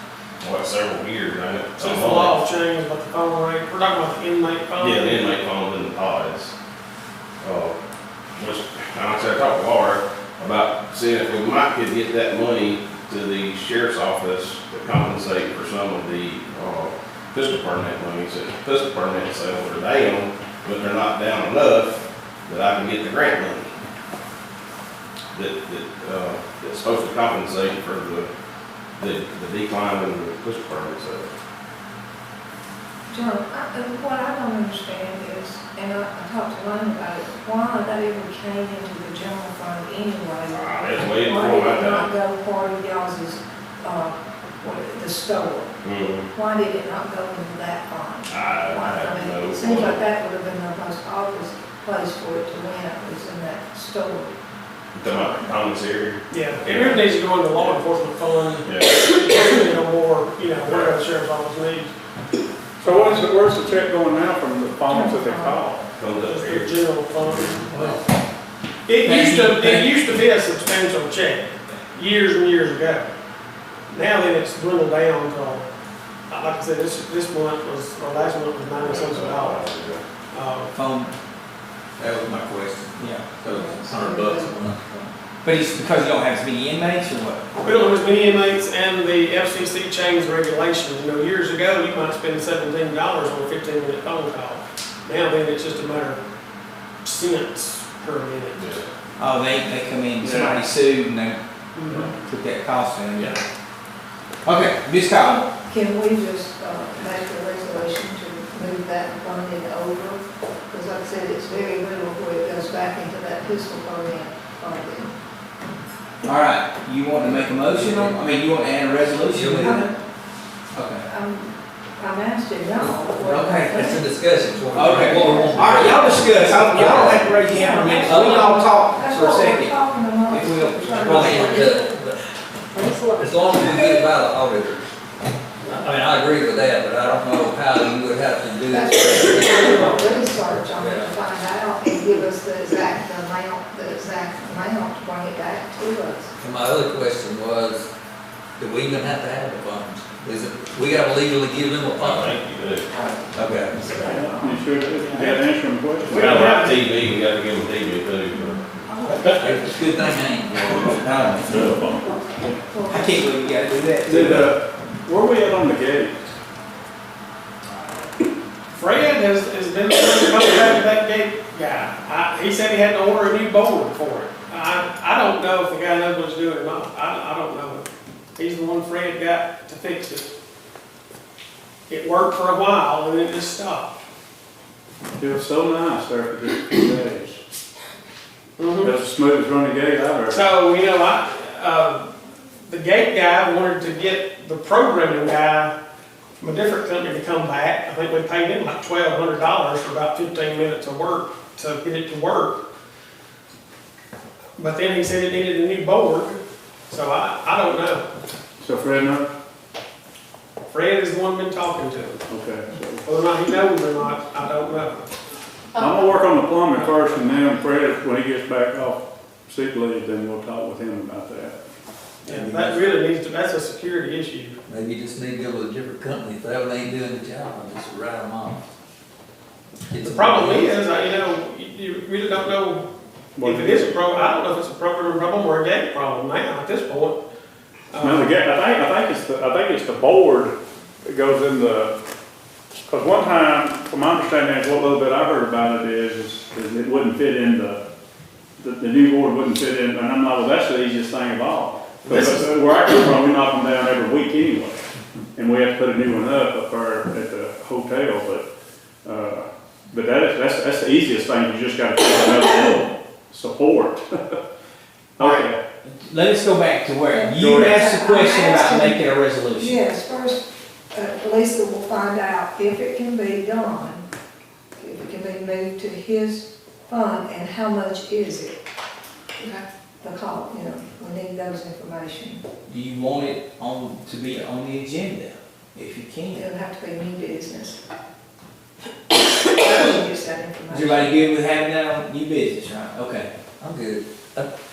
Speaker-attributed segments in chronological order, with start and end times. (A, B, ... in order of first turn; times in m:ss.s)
0:00.4-0:02.4 A
0:01.8-0:05.3 B
0:04.8-0:06.5 A
0:07.4-0:07.7 A
0:08.4-0:23.7 A
0:25.3-0:28.3 A
0:29.0-0:31.3 A
0:33.1-0:45.8 C
0:40.5-0:42.1 A
0:45.8-0:46.3 A
0:46.3-0:54.3 C
0:48.3-0:50.0 A
0:54.9-0:57.0 A
0:56.3-1:01.9 B
0:58.6-0:59.1 A
1:02.8-1:05.8 D
1:02.8-1:03.2 B
1:04.9-1:05.6 C
1:06.0-1:07.4 A
1:06.2-1:08.0 B
1:07.7-1:08.0 E
1:08.8-1:13.0 B
1:09.0-1:09.9 E
1:13.9-1:15.6 B
1:16.3-1:19.6 B
1:18.8-1:20.0 A
1:20.3-1:20.7 B
1:20.7-1:21.1 E
1:22.0-1:24.8 F
1:23.0-1:23.4 E
1:23.4-1:25.1 C
1:25.4-1:27.4 E
1:27.6-1:36.2 B
1:37.0-1:38.6 B
1:38.5-1:38.9 A
1:39.2-1:41.4 E
1:40.2-1:40.6 D
1:41.8-1:42.1 B
1:42.1-1:43.4 E
1:43.1-1:43.4 B
1:44.4-1:45.4 E
1:45.1-1:55.1 C
1:56.2-1:59.9 E
1:59.2-1:59.8 F
1:59.6-2:00.0 C
2:00.7-2:01.0 E
2:01.0-2:04.1 C
2:02.8-2:03.1 F
2:03.2-2:03.9 E
2:03.9-2:07.3 F
2:04.7-2:11.4 E
2:04.7-2:12.0 C
2:07.8-2:08.5 F
2:11.0-2:12.2 F
2:13.1-2:14.9 F
2:15.7-2:21.2 F
2:18.7-2:26.3 C
2:26.4-2:27.9 F
2:28.6-2:32.4 F
2:32.0-2:32.9 A
2:32.9-2:34.6 C
2:33.3-2:33.9 F
2:34.0-2:36.6 D
2:35.0-2:35.4 B
2:36.1-2:36.8 B
2:36.1-2:39.6 A
2:38.3-2:39.3 C
2:39.4-2:41.4 F
2:40.6-2:42.0 D
2:41.5-2:43.4 C
2:42.9-2:44.5 E
2:44.0-2:46.3 D
2:48.7-2:57.8 B
2:58.4-3:00.3 B
3:01.9-3:03.9 B
3:05.2-3:07.4 D
3:08.6-3:08.9 B
3:08.8-3:10.4 D
3:10.3-3:12.1 B
3:12.7-3:15.7 B
3:16.4-3:22.6 B
3:24.6-3:26.4 B
3:26.9-3:28.0 B
3:28.6-3:29.3 D
3:30.7-3:32.2 B
3:32.3-3:33.0 D
3:33.0-3:35.0 B
3:35.8-3:41.6 D
3:36.7-3:37.2 B
3:42.2-3:44.6 B
3:42.3-3:42.8 F
3:44.6-3:48.6 F
3:49.9-3:50.6 F
3:50.0-3:52.9 B
3:50.2-3:50.7 E
3:53.4-3:53.9 D
3:53.4-3:57.2 B
3:57.9-3:58.3 B
3:58.0-4:01.9 D
4:02.9-4:07.8 D
4:08.6-4:14.8 D
4:12.1-4:12.5 B
4:15.4-4:18.5 D
4:19.0-4:24.4 D
4:25.2-4:25.6 D
4:25.2-4:25.5 B
4:25.8-4:29.8 E
4:27.1-4:29.0 C
4:27.4-4:27.7 D
4:29.6-4:34.0 C
4:34.8-4:38.6 C
4:39.4-4:42.4 C
4:42.7-4:46.4 E
4:46.3-4:47.8 C
4:49.4-4:51.3 C
4:50.7-4:53.3 E
4:53.6-4:54.5 F